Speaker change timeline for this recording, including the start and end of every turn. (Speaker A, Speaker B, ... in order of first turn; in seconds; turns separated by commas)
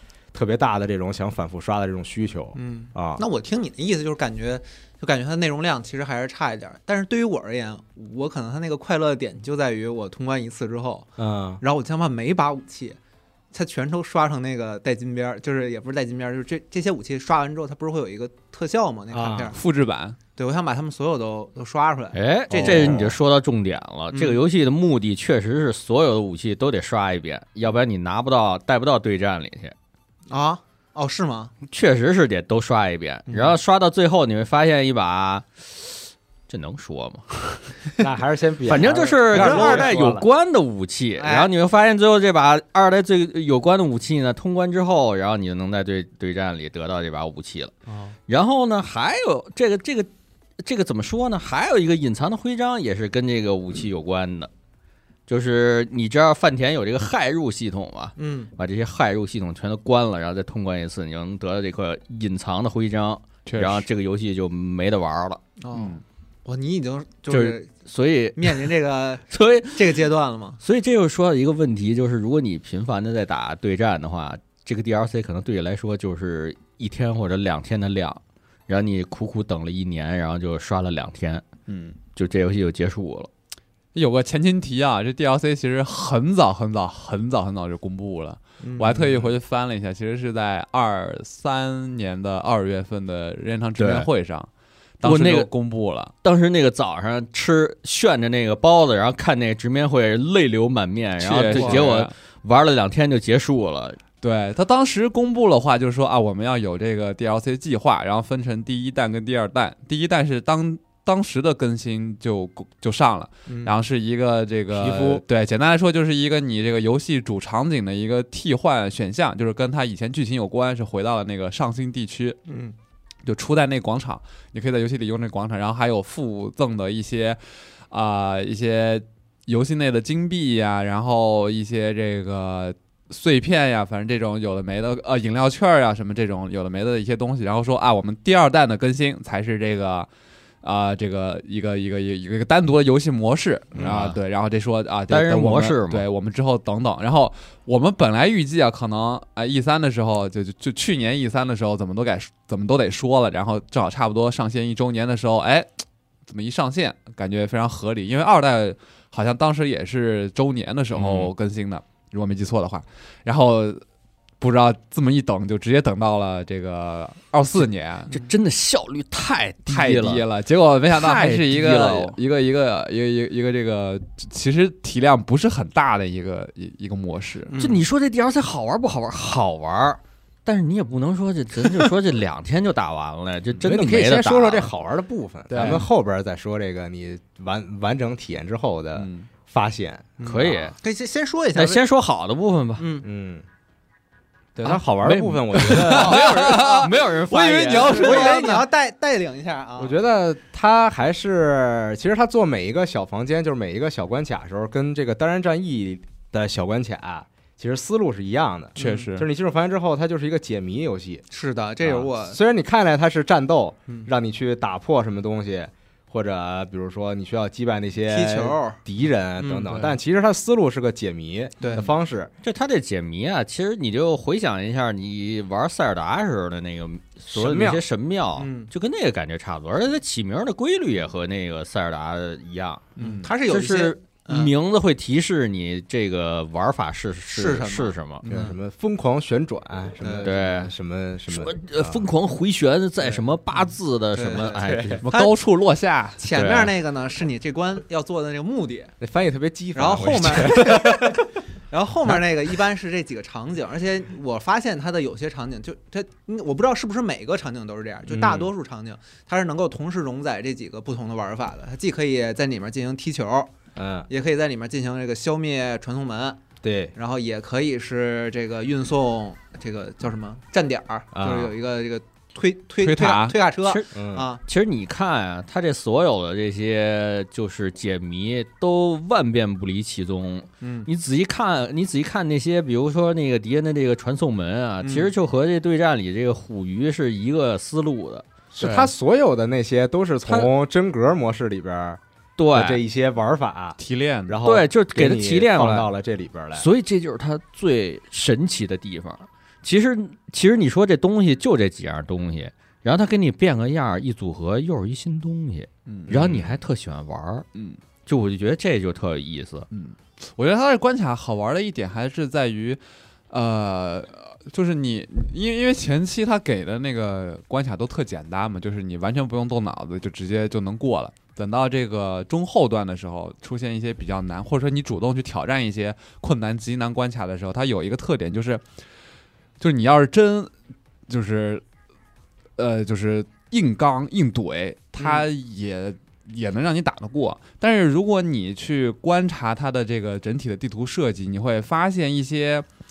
Speaker A: 0.3-3.2, Speaker B: 2.5-11.1, Speaker A: 11.2-11.6, Speaker B: 11.6-13.0, Speaker B: 13.5-19.6, Speaker A: 19.1-19.5, Speaker C: 19.5-20.2, Speaker B: 20.4-23.1, Speaker D: 22.1-29.8, Speaker A: 22.5-23.2, Speaker B: 24.1-24.4, Speaker B: 30.3-31.5, Speaker D: 31.7-37.6, Speaker B: 33.3-33.6, Speaker A: 38.0-40.3, Speaker D: 38.7-47.7, Speaker B: 39.3-39.9, Speaker B: 41.2-41.5, Speaker D: 48.3-50.1, Speaker D: 50.6-54.5, Speaker D: 55.3-65.4, Speaker B: 58.2-58.5, Speaker C: 63.5-63.9, Speaker B: 65.6-67.7, Speaker C: 65.7-66.0, Speaker D: 67.3-68.8, Speaker B: 68.4-70.6, Speaker D: 69.3-70.1, Speaker D: 70.6-81.5, Speaker C: 81.7-82.0, Speaker D: 82.1-83.3, Speaker C: 83.9-94.5, Speaker B: 88.6-89.2, Speaker D: 93.8-94.1, Speaker C: 95.0-96.1, Speaker D: 95.0-95.5, Speaker D: 96.2-104.0, Speaker C: 101.2-102.1, Speaker B: 101.5-101.8, Speaker C: 104.2-122.4, Speaker B: 113.5-113.7, Speaker A: 114.7-115.2, Speaker B: 122.5-122.8, Speaker C: 123.2-140.1, Speaker C: 140.6-163.8, Speaker D: 143.8-144.2, Speaker D: 145.1-146.1, Speaker D: 160.9-161.3, Speaker C: 164.4-168.1, Speaker D: 168.1-170.3, Speaker C: 169.7-177.6, Speaker D: 170.9-172.2, Speaker B: 177.5-177.8, Speaker D: 177.6-184.7, Speaker A: 183.6-190.2, Speaker C: 185.5-185.9, Speaker C: 188.9-189.3, Speaker B: 190.2-191.8, Speaker D: 190.2-190.8, Speaker D: 191.6-192.9, Speaker B: 192.8-193.1, Speaker A: 193.0-193.4, Speaker C: 194.6-194.8, Speaker A: 194.6-196.6, Speaker D: 195.0-198.4, Speaker C: 195.5-198.7, Speaker B: 197.6-200.0, Speaker A: 199.8-211.2, Speaker B: 208.8-209.1, Speaker C: 208.8-209.3, Speaker B: 211.3-212.4, Speaker A: 211.8-222.3, Speaker B: 218.1-218.8, Speaker C: 219.7-219.9, Speaker B: 221.6-221.9, Speaker D: 222.4-238.2, Speaker A: 227.3-227.8, Speaker B: 228.4-228.7, Speaker C: 233.0-233.3, Speaker B: 233.0-234.5, Speaker B: 237.3-238.6, Speaker A: 238.3-242.0, Speaker B: 240.0-240.3, Speaker D: 240.2-240.7, Speaker D: 241.3-245.0, Speaker B: 243.5-245.3, Speaker A: 244.6-245.0, Speaker C: 245.0-246.5, Speaker B: 246.2-248.9, Speaker A: 249.0-251.2, Speaker B: 249.7-263.5, Speaker A: 258.1-258.5, Speaker A: 263.8-264.1, Speaker B: 264.1-266.4, Speaker A: 266.6-266.9, Speaker B: 266.9-274.4, Speaker A: 271.1-271.5, Speaker C: 272.8-273.4, Speaker D: 273.6-288.3, Speaker A: 273.9-274.3, Speaker B: 280.6-280.9, Speaker B: 284.8-285.1, Speaker A: 288.6-292.0, Speaker C: 288.6-288.9, Speaker D: 292.4-292.8, Speaker A: 292.5-296.7, Speaker C: 293.8-294.4, Speaker D: 294.4-295.9, Speaker D: 296.6-307.5, Speaker C: 305.9-306.5, Speaker C: 307.5-307.8, Speaker D: 308.1-309.7, Speaker C: 309.7-328.6, Speaker C: 329.6-330.5, Speaker C: 331.1-331.6, Speaker C: 332.6-342.7, Speaker B: 335.0-335.3